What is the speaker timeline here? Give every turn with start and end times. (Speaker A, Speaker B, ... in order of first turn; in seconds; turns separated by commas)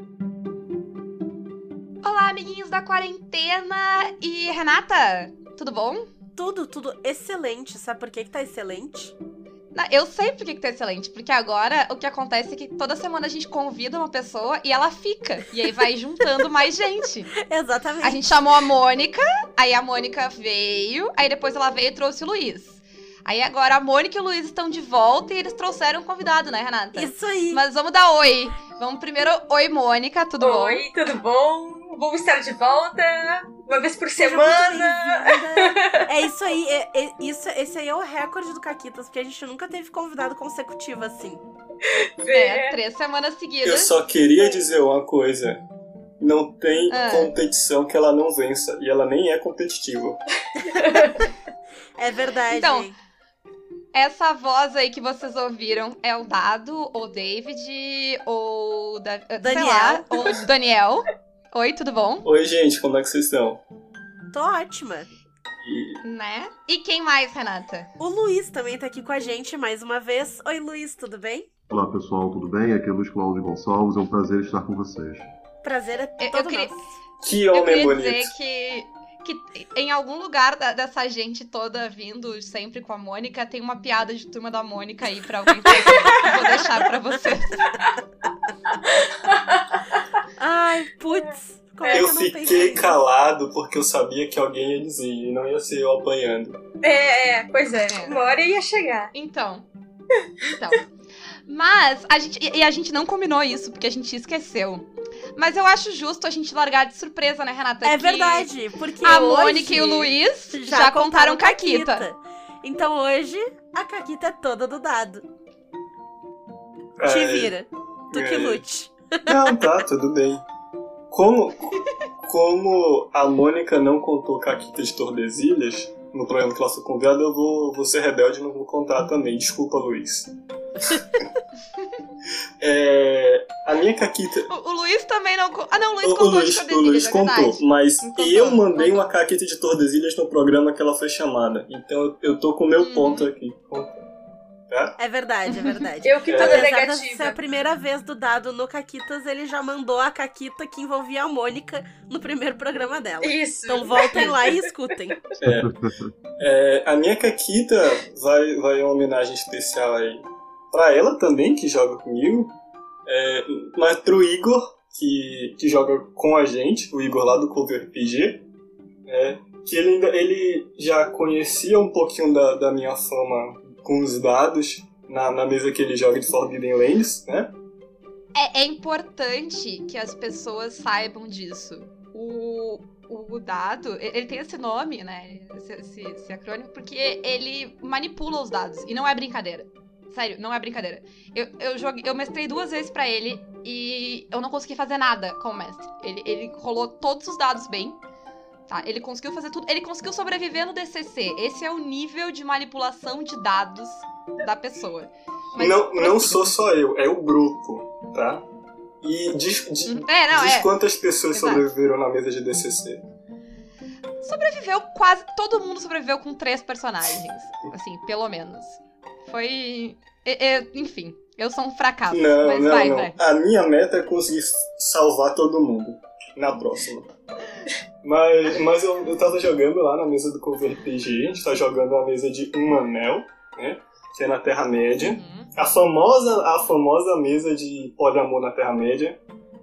Speaker A: 2.0-6.1, Speaker B: 6.4-9.1, Speaker A: 9.7-17.3, Speaker B: 17.4-18.4, Speaker A: 18.0-30.8, Speaker B: 26.9-27.6, Speaker C: 30.4-36.0, Speaker B: 34.2-41.4, Speaker C: 41.8-42.8, Speaker A: 42.3-43.9, Speaker D: 43.6-45.6, Speaker D: 46.2-50.2, Speaker A: 46.9-47.3, Speaker B: 50.6-51.0, Speaker C: 50.7-51.2, Speaker B: 52.0-53.0, Speaker A: 52.5-52.9, Speaker A: 53.9-62.3, Speaker B: 59.4-60.1, Speaker D: 62.2-63.6, Speaker B: 64.3-65.1, Speaker D: 65.6-66.0, Speaker A: 66.0-67.9, Speaker B: 68.0-71.5, Speaker E: 71.7-75.3, Speaker B: 75.6-77.0, Speaker A: 76.2-76.7, Speaker D: 77.2-78.3, Speaker A: 77.5-87.8, Speaker C: 88.7-90.0, Speaker B: 90.4-93.0, Speaker D: 91.9-96.6, Speaker C: 96.8-99.1, Speaker A: 97.9-98.1, Speaker A: 99.1-99.7, Speaker A: 100.4-100.9, Speaker A: 101.5-108.5, Speaker B: 107.8-115.3, Speaker A: 109.0-112.1, Speaker D: 117.0-117.5, Speaker B: 117.1-119.6, Speaker D: 118.1-118.6, Speaker D: 119.3-120.4, Speaker D: 121.1-130.3, Speaker D: 132.6-134.5, Speaker A: 134.5-139.1, Speaker D: 136.0-144.1, Speaker A: 142.8-143.3, Speaker D: 144.7-144.9, Speaker B: 145.0-155.2, Speaker A: 145.5-145.9, Speaker C: 146.0-147.4, Speaker D: 146.3-146.7, Speaker C: 153.2-155.2, Speaker D: 155.4-155.7, Speaker E: 155.5-156.1, Speaker D: 156.4-162.5, Speaker D: 163.1-168.4, Speaker D: 169.1-177.5, Speaker A: 178.3-198.0, Speaker A: 198.7-206.6, Speaker D: 205.6-208.4, Speaker D: 209.0-213.1, Speaker A: 209.9-210.7, Speaker A: 211.3-211.7, Speaker A: 214.2-223.2, Speaker D: 222.1-227.1, Speaker D: 228.0-239.2, Speaker A: 235.0-235.5